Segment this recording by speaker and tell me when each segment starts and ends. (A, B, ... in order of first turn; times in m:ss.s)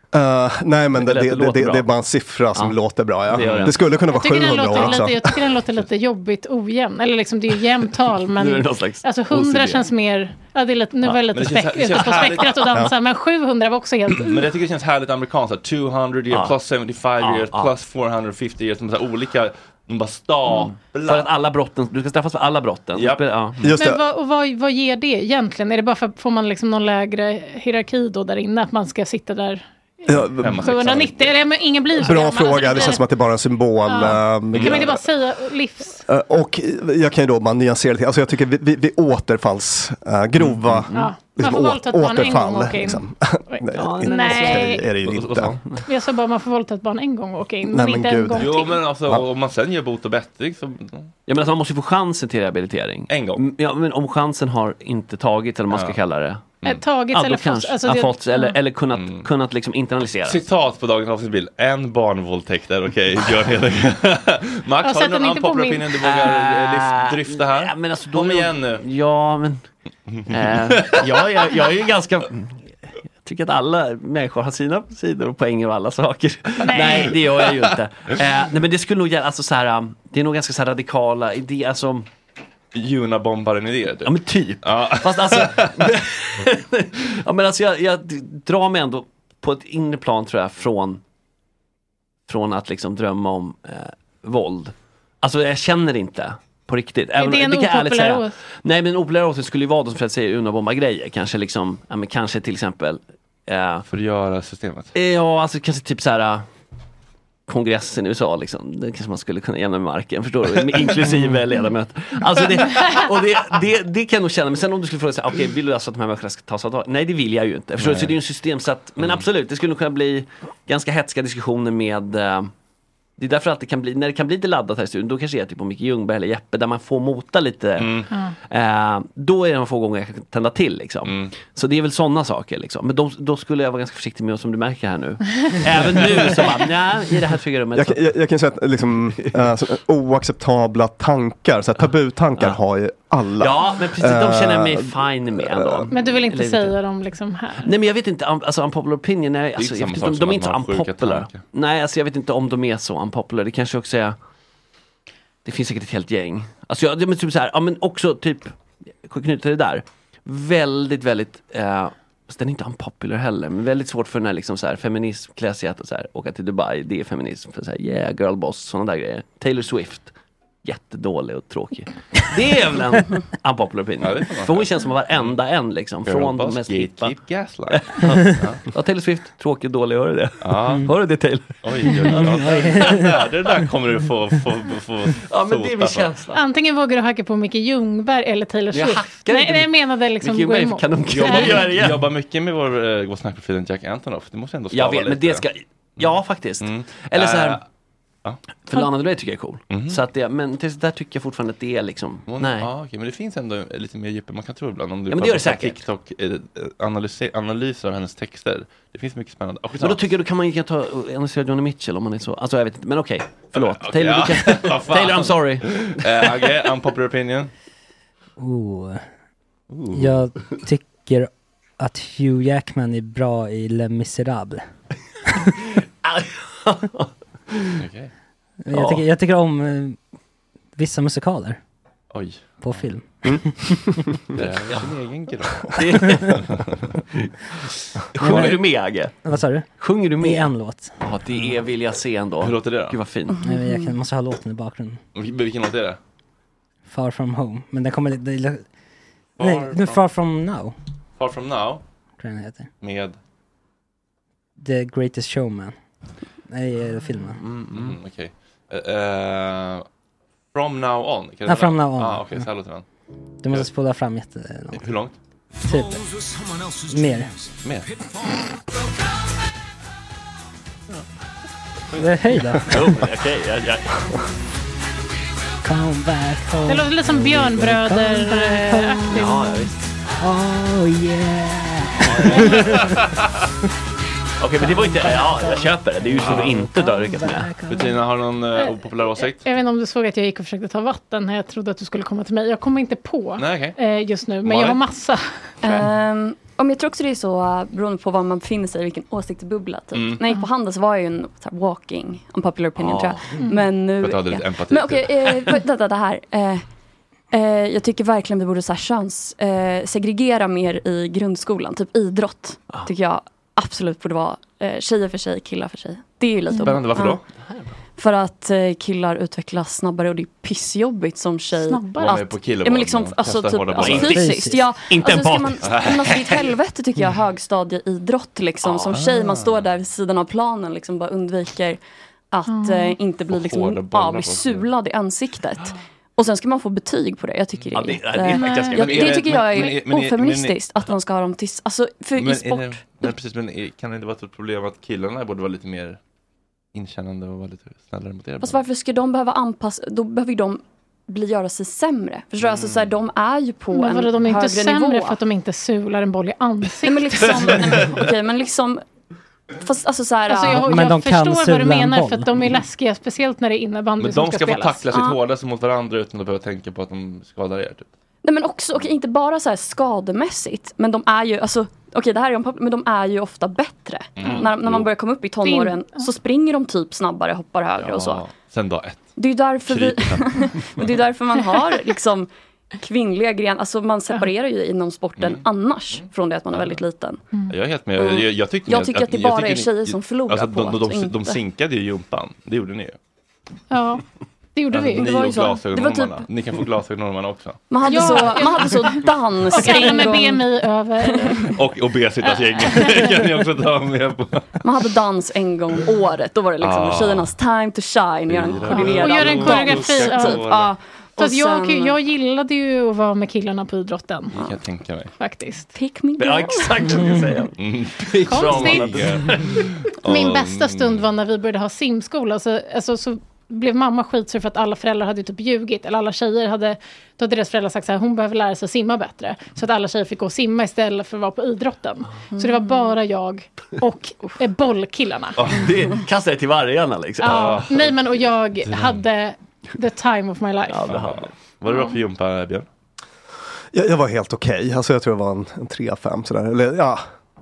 0:00.1-0:05.5 A
0:01.0-0:01.9 B
0:02.5-0:03.8 B
0:03.3-0:03.8 C
0:04.0-0:14.5 D
0:08.4-0:09.9 B
0:11.3-0:12.6 C
0:14.2-0:21.3 C
0:16.3-0:16.5 B
0:17.2-0:17.7 B
0:20.5-0:23.7 B
0:22.9-0:23.2 C
0:23.6-0:24.0 A
0:23.7-0:33.1 D
0:30.1-0:30.6 A
0:30.4-0:31.3 C
0:32.0-0:35.0 A
0:33.8-0:36.0 D
0:34.5-0:34.9 C
0:36.1-0:45.6 A
0:40.5-0:41.2 B
0:40.9-0:44.9 D
0:43.7-0:44.8 B
0:45.0-0:45.6 C
0:45.8-0:48.8 D
0:47.7-0:48.5 A
0:48.4-0:51.1 C
0:51.3-0:56.6 B
0:53.1-0:53.4 C
0:55.7-0:56.0 C
0:56.6-0:58.6 D
0:57.1-1:00.4 B
0:58.9-0:59.3 C
1:00.2-1:08.8 C
1:04.8-1:06.0 D
1:06.0-1:09.6 B
1:10.1-1:11.1 C
1:10.3-1:12.6 B
1:13.2-1:22.1 B
1:16.6-1:17.2 D
1:22.7-1:25.9 C
1:24.0-1:31.0 B
1:32.3-1:43.8 B
1:37.2-1:38.3 D
1:43.9-1:44.9 C
1:44.9-1:46.4 B
1:47.5-2:02.5 B
1:57.8-1:58.1 C
1:59.0-1:59.2 C
2:03.2-2:18.0 B
2:07.8-2:08.1 C
2:11.0-2:11.3 C
2:17.8-2:25.8 A
2:23.4-2:26.8 B
2:25.9-2:27.7 D
2:27.6-2:34.2 B
2:29.6-2:31.4 C
2:35.4-2:50.1 B
2:50.6-2:57.2 B
2:54.0-2:55.3 C
2:56.0-2:58.6 C
2:57.7-3:02.4 B
3:00.4-3:00.9 C
3:01.6-3:06.1 C
3:02.1-3:03.0 E
3:05.2-3:06.4 B
3:06.3-3:11.7 D
3:08.7-3:12.1 B
3:11.1-3:15.4 C
3:14.7-3:17.6 B
3:16.0-3:17.6 C
3:18.6-3:22.7 B
3:19.7-3:20.0 C
3:22.3-3:30.0 C
3:25.1-3:25.8 B
3:29.8-3:36.4 B
3:33.5-3:37.5 C
3:38.4-3:39.0 E
3:39.7-3:40.0 C
3:39.9-3:44.6 E
3:46.0-3:47.8 B
3:47.8-3:48.1 C
3:48.6-3:50.0 E
3:48.7-3:49.0 B
3:50.8-3:51.6 E
3:52.1-3:52.8 C
3:52.6-3:53.9 E
3:54.3-3:54.9 B
3:54.3-3:56.7 C
3:55.7-3:56.5 B
3:58.1-3:59.1 B
3:58.2-4:00.9 E
3:59.7-4:03.4 B
4:02.4-4:03.0 C
4:03.3-4:03.9 F
4:03.4-4:05.0 E
4:05.1-4:06.0 C
4:06.9-4:08.6 E
4:09.4-4:10.0 C
4:09.4-4:10.7 E
4:11.2-4:11.8 C
4:12.2-4:12.7 E
4:12.8-4:13.2 C
4:14.6-4:15.8 E
4:16.5-4:17.4 E
4:17.4-4:17.9 B
4:17.5-4:19.8 C
4:20.5-4:22.8 C
4:21.5-4:22.4 E
4:23.4-4:24.8 E
4:24.7-4:25.1 C
4:25.6-4:26.0 E
4:26.9-4:27.3 E
4:27.6-4:27.9 C
4:32.0-4:32.9 E
4:32.7-4:34.0 B
4:35.6-4:39.4 E
4:36.6-4:39.6 D
4:39.1-4:39.7 B
4:40.2-4:43.0 E
4:42.0-4:42.6 B
4:44.4-4:47.5 B
4:44.6-4:47.9 E
4:46.2-4:46.5 C
4:47.7-4:49.4 C
4:48.6-4:55.8 D
4:53.4-4:53.8 C
4:54.4-4:54.8 C
4:55.6-5:06.6 F
4:59.9-5:00.2 C
5:02.8-5:03.2 B
5:03.4-5:03.7 D
5:04.0-5:05.6 C
5:07.3-5:17.2 F
5:16.5-5:16.8 D
5:16.6-5:17.2 C
5:17.4-5:17.7 B
5:18.0-5:31.8 F
5:21.6-5:22.1 D
5:22.0-5:24.2 C
5:23.8-5:25.8 B
5:24.1-5:24.6 E
5:25.6-5:26.5 C
5:28.6-5:29.0 B
5:28.9-5:29.7 C
5:32.3-5:43.1 F
5:32.5-5:33.0 D
5:33.3-5:34.7 C
5:37.7-5:39.6 B
5:38.3-5:38.8 D
5:38.7-5:40.6 C
5:42.2-5:46.0 C
5:46.7-5:48.6 C
5:48.4-5:55.2 F
5:52.4-5:52.9 C
5:53.7-5:57.8 D
5:56.8-5:58.8 F
5:59.6-6:00.8 F
6:00.3-6:04.8 D
6:00.5-6:02.3 E
6:04.0-6:07.9 C
6:04.9-6:05.2 F
6:08.2-6:18.2 F
6:14.2-6:14.9 C
6:15.4-6:16.1 D
6:17.8-6:19.0 C
6:19.2-6:27.2 F
6:19.6-6:20.9 C
6:25.2-6:26.8 C
6:27.5-6:33.0 C
6:28.0-6:31.4 F
6:33.7-6:34.0 D
6:34.5-6:35.4 D
6:34.7-6:38.4 C
6:34.9-6:36.2 F
6:37.7-6:40.4 F
6:37.8-6:41.5 D
6:41.0-6:41.4 F
6:41.4-6:44.5 C
6:42.2-6:43.2 D
6:44.6-6:52.0 F
6:46.6-6:47.3 C
6:48.3-6:50.8 C
6:48.6-6:50.5 D
6:51.2-6:54.3 D
6:54.3-6:55.1 C
6:55.2-6:55.7 D
6:55.7-6:56.8 F
6:56.2-6:57.5 B
6:57.6-7:01.1 C
6:58.1-6:59.6 B
6:58.2-6:59.0 D
7:00.0-7:15.4 D
7:12.3-7:12.9 F
7:15.4-7:15.7 C
7:15.5-7:17.6 B
7:17.2-7:20.9 D
7:17.2-7:18.0 C
7:18.6-7:19.0 C
7:20.7-7:21.3 B
7:20.8-7:22.6 C
7:23.7-7:27.0 A